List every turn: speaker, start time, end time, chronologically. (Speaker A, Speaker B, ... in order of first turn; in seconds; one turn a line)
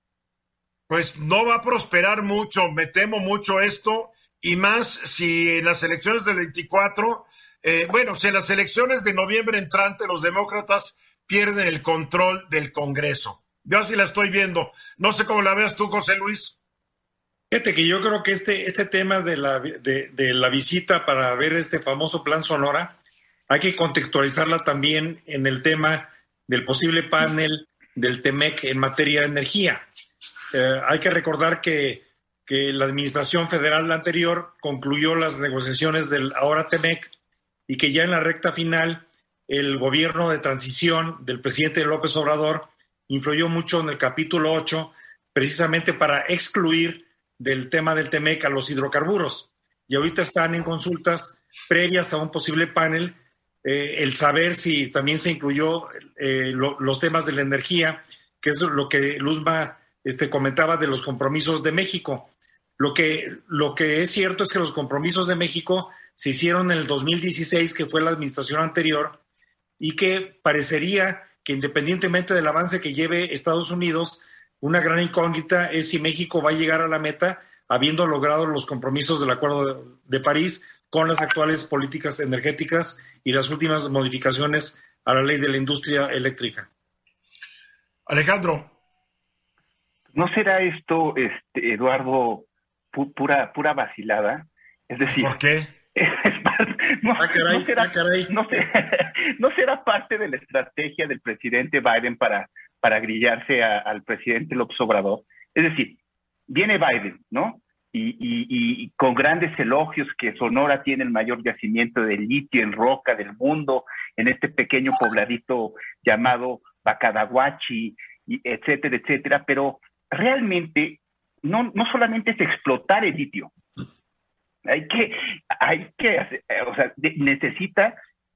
Speaker A: 0.9-16.6
Speaker B: 17.5-23.0
Speaker B: 23.5-29.8
Speaker B: 30.5-37.1
Speaker B: 37.7-69.2
Speaker B: 69.8-86.7
Speaker A: 88.1-88.7
Speaker C: 90.1-95.3
Speaker A: 95.2-95.7
Speaker C: 95.9-123.5
Speaker B: 97.2-98.3
Speaker C: 124.7-128.0